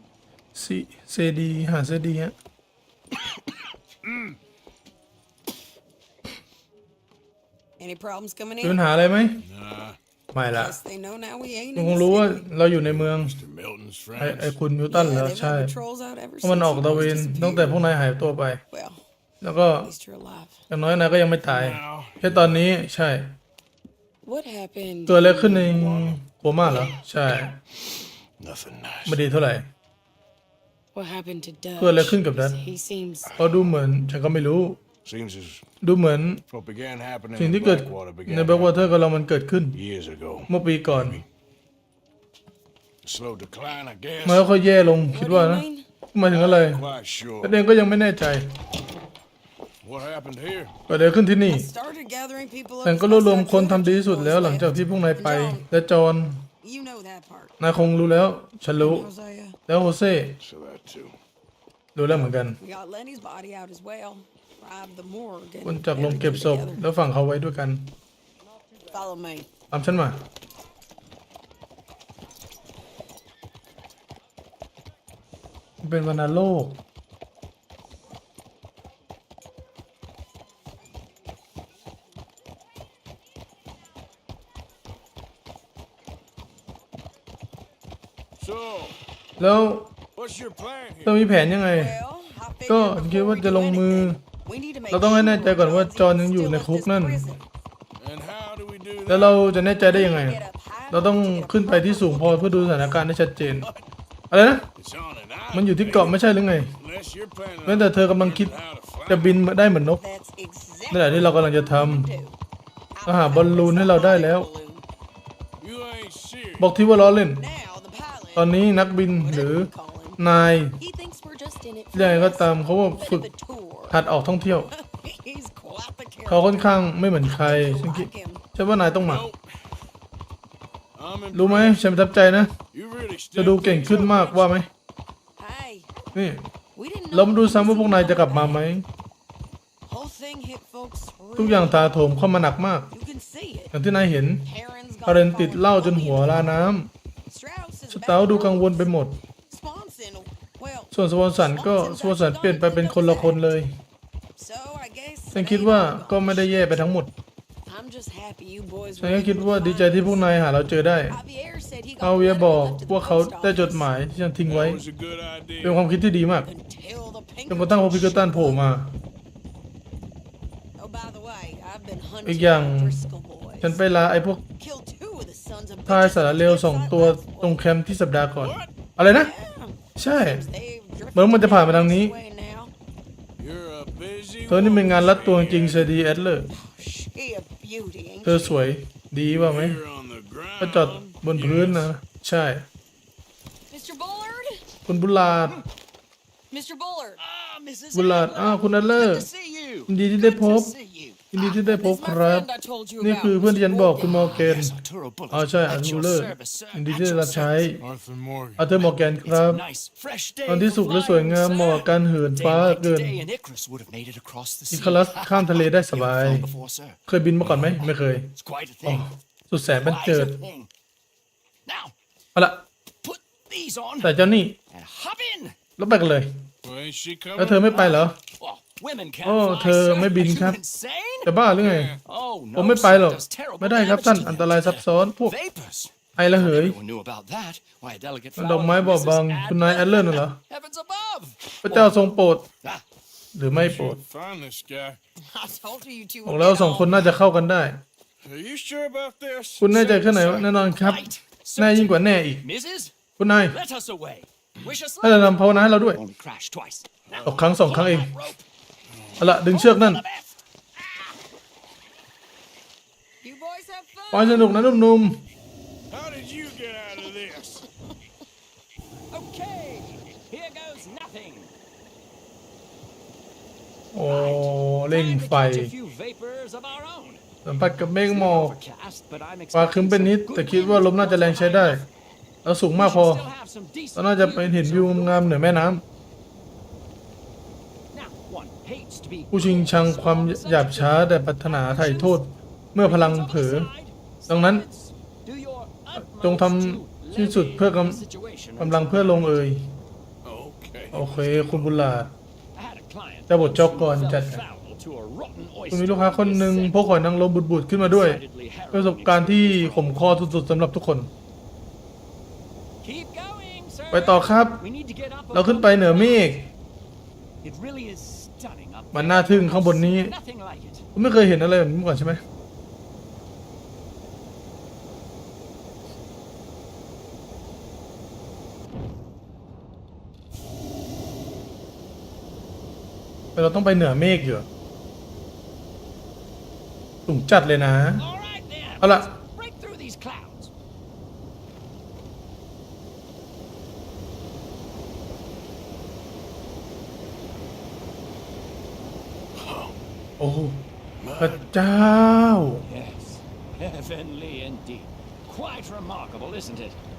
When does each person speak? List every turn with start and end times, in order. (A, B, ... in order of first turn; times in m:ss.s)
0:00.6-0:02.3 A
0:07.8-0:08.8 B
0:08.6-0:09.4 A
0:09.4-0:10.0 C
0:10.3-0:10.8 A
0:10.5-0:12.6 B
0:11.8-0:13.4 A
0:12.8-0:14.6 C
0:14.2-0:15.7 A
0:14.9-0:17.8 B
0:16.4-0:18.6 A
0:18.7-0:19.0 B
0:19.4-0:19.9 A
0:19.8-0:20.7 B
0:20.7-0:23.4 A
0:21.4-0:22.6 C
0:24.2-0:25.7 B
0:25.1-0:27.6 A
0:25.2-0:27.0 C
0:28.4-0:29.2 C
0:29.1-0:29.7 A
0:31.0-0:33.4 B
0:31.8-0:32.6 A
0:33.2-0:33.8 C
0:33.4-0:34.8 A
0:35.0-0:35.6 C
0:35.8-0:36.4 A
0:36.5-0:39.0 C
0:37.4-0:39.8 A
0:39.7-0:41.2 C
0:40.5-0:41.2 A
0:43.0-0:44.5 C
0:44.2-0:46.9 A
0:44.9-0:45.9 B
0:46.3-0:47.6 C
0:47.4-0:48.5 A
0:49.8-0:50.8 C
0:50.9-0:51.7 A
0:51.5-0:55.7 B
0:52.8-0:56.5 A
0:56.6-0:57.6 B
0:57.6-0:59.1 A
0:57.8-0:58.1 C
0:58.8-0:59.6 B
0:59.7-1:00.4 A
1:00.4-1:01.2 C
1:02.0-1:02.6 A
1:02.6-1:06.9 B
1:05.6-1:08.0 A
1:08.9-1:09.5 B
1:09.7-1:10.2 A
1:15.8-1:16.8 A
1:28.4-1:29.0 C
1:29.4-1:29.9 A
1:30.2-1:31.3 C
1:31.0-1:32.0 A
1:31.6-1:37.4 B
1:32.7-1:34.2 A
1:34.9-1:37.2 A
1:38.0-1:39.4 C
1:39.1-1:43.7 A
1:39.8-1:43.0 B
1:44.3-1:44.7 A
1:44.8-1:46.2 C
1:45.5-1:46.8 A
1:46.8-1:49.5 C
1:47.6-1:48.6 A
1:49.1-1:50.0 A
1:50.0-1:52.4 B
1:50.9-1:52.1 A
1:53.0-1:54.8 B
1:53.1-1:54.5 A
1:55.6-1:56.7 C
1:56.6-1:57.4 A
1:57.3-2:00.2 B
1:58.4-2:00.8 A
2:00.8-2:04.0 B
2:01.9-2:03.3 A
2:03.9-2:04.7 A
2:04.7-2:08.4 B
2:06.3-2:09.2 A
2:09.0-2:09.4 C
2:11.0-2:11.9 C
2:11.3-2:12.5 A
2:12.7-2:14.6 C
2:13.4-2:14.7 A
2:15.4-2:16.0 B
2:16.2-2:16.5 A
2:16.8-2:18.7 B
2:17.1-2:18.9 A
2:19.9-2:22.1 B
2:21.4-2:22.9 A
2:22.9-2:23.7 B
2:23.7-2:24.5 A
2:24.5-2:26.7 B
2:25.1-2:26.9 A
2:27.3-2:29.0 B
2:27.9-2:29.2 A
2:29.5-2:33.4 B
2:30.9-2:33.8 A
2:34.4-2:37.0 B
2:35.3-2:37.1 A
2:37.7-2:40.3 B
2:39.0-2:41.2 A
2:41.1-2:43.9 B
2:42.0-2:44.8 A
2:44.4-2:45.9 C
2:45.6-2:46.5 A
2:46.4-2:48.7 B
2:47.5-2:48.9 A
2:50.8-2:53.8 B
2:52.2-2:53.0 A
2:53.6-2:54.4 A
2:54.6-2:57.6 B
2:55.9-2:59.3 A
2:58.4-2:58.9 C
2:59.0-3:02.7 B
3:00.0-3:00.5 A
3:01.2-3:02.2 A
3:03.4-3:06.0 C
3:04.5-3:06.5 A
3:06.5-3:08.6 B
3:08.2-3:09.8 A
3:09.3-3:11.9 C
3:10.6-3:12.7 A
3:13.7-3:14.6 B
3:14.9-3:15.6 A
3:16.5-3:17.2 B
3:17.2-3:21.2 D
3:17.9-3:19.3 A
3:19.9-3:20.8 A
3:21.3-3:22.5 A
3:21.3-3:24.4 B
3:23.0-3:24.8 A
3:24.0-3:27.7 D
3:25.3-3:27.8 A
3:27.8-3:28.7 C
3:28.6-3:29.6 A
3:28.8-3:37.0 D
3:30.5-3:33.2 A
3:34.7-3:36.5 A
3:37.1-3:38.3 A
3:37.4-3:37.8 C
3:37.8-3:39.1 D
3:38.8-3:40.4 A
3:39.7-3:40.7 D
3:41.7-3:41.9 D
3:42.4-3:42.6 A
3:43.0-3:45.6 D
3:44.0-3:44.6 A
3:45.8-3:46.3 A
3:46.6-3:47.8 C
3:47.4-3:48.2 A
3:47.6-3:51.3 D
3:49.2-3:50.6 A
3:51.2-3:52.0 A
3:51.5-3:52.0 C
3:52.0-4:02.0 D
3:52.6-3:55.3 A
3:56.2-3:56.8 A
3:58.4-4:00.4 A
4:01.6-4:02.5 A
4:03.4-4:04.0 A
4:03.6-4:05.0 C
4:05.2-4:07.2 B
4:06.3-4:07.8 A
4:08.2-4:10.0 C
4:09.6-4:12.4 A
4:09.7-4:18.5 D
4:13.2-4:13.6 A
4:15.0-4:16.0 A
4:17.1-4:17.8 C
4:17.2-4:18.1 A
4:18.9-4:19.4 C
4:19.2-4:20.0 A
4:19.4-4:20.4 D
4:23.2-4:24.8 B
4:24.1-4:25.2 A
4:25.9-4:27.6 C
4:29.1-4:31.5 D
4:33.9-4:35.7 A
4:34.0-4:37.2 D
4:37.4-4:38.6 A
4:38.0-4:41.8 D
4:39.5-4:41.8 A
4:42.4-4:43.2 A
4:42.7-4:45.6 D
4:44.0-4:45.8 A
4:47.9-4:52.2 D
4:49.3-4:53.7 A
4:52.8-4:59.4 D
4:54.3-4:54.6 A
4:56.1-4:58.0 A
4:58.6-4:59.7 A
5:00.2-5:01.8 C
5:00.9-5:02.1 A
5:02.5-5:07.0 D
5:03.3-5:04.4 A
5:05.7-5:08.2 A
5:07.8-5:10.0 D
5:08.7-5:11.1 A
5:12.8-5:16.3 D
5:13.9-5:14.6 A
5:15.3-5:16.5 A
5:17.4-5:20.9 D
5:18.9-5:20.1 A
5:21.0-5:22.2 A
5:33.4-5:34.5 A
5:37.1-5:38.0 A
5:38.0-5:40.5 D
5:38.8-5:39.1 A
5:49.4-5:49.7 C
5:50.2-5:50.7 A
5:51.0-5:51.4 C
5:51.2-5:52.7 A
5:52.6-5:56.8 D